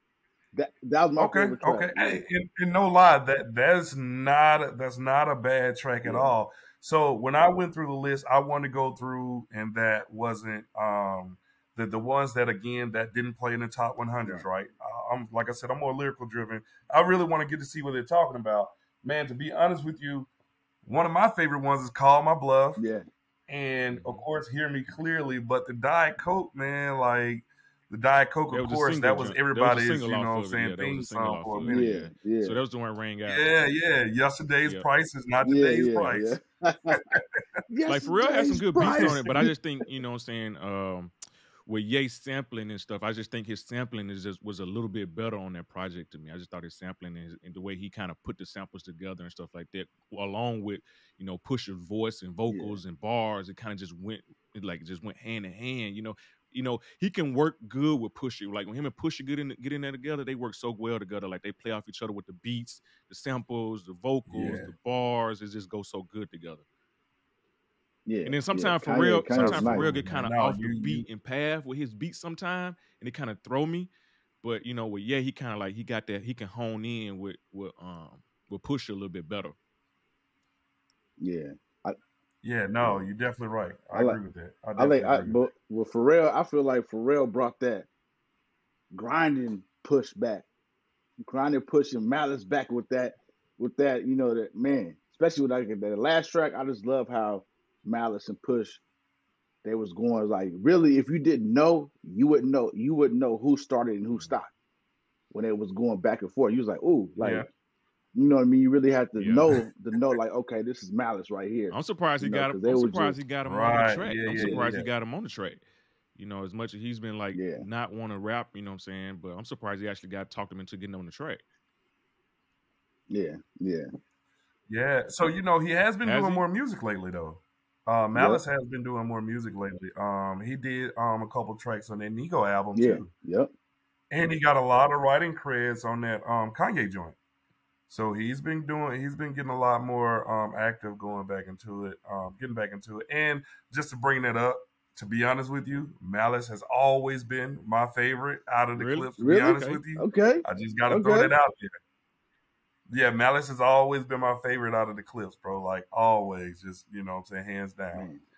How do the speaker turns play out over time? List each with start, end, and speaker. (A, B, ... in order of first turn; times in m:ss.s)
0:00.5-0:02.2 A
0:01.2-0:20.3 B
0:06.0-0:06.4 A
0:20.8-0:22.8 B
0:22.8-0:23.0 A
0:23.5-0:31.9 B
0:23.9-0:24.2 C
0:28.5-0:33.5 C
0:31.7-0:32.6 A
0:33.3-0:36.4 B
0:35.4-0:37.0 A
0:37.7-0:39.5 A
0:37.9-0:41.1 C
0:38.8-0:39.2 B
0:41.7-1:06.6 C
0:52.5-0:52.8 A
1:04.3-1:04.7 B
1:08.1-1:09.9 A
1:08.2-1:13.9 C
1:09.3-1:11.1 B
1:14.4-1:19.6 C
1:21.2-1:22.0 A
1:22.4-1:25.4 B
1:23.9-1:24.2 A
1:24.8-1:27.9 A
1:28.9-1:30.5 A
1:31.2-1:38.8 A
1:39.6-1:44.5 A
1:45.3-1:47.5 A
1:47.2-1:47.5 B
1:48.2-1:53.2 A
1:49.2-1:49.5 C
1:51.7-1:55.6 C
1:53.4-1:54.9 B
1:54.3-1:54.7 A
1:56.2-2:01.4 C
1:57.3-1:57.7 A
2:03.1-2:03.9 A
2:04.7-2:13.1 B
2:06.0-2:06.4 C
2:08.1-2:08.4 A
2:12.8-2:13.5 A
2:14.1-2:17.2 B
2:17.9-2:31.7 B
2:28.8-2:29.8 C
2:29.2-2:31.3 A
2:32.9-2:38.1 B
2:37.9-2:38.2 A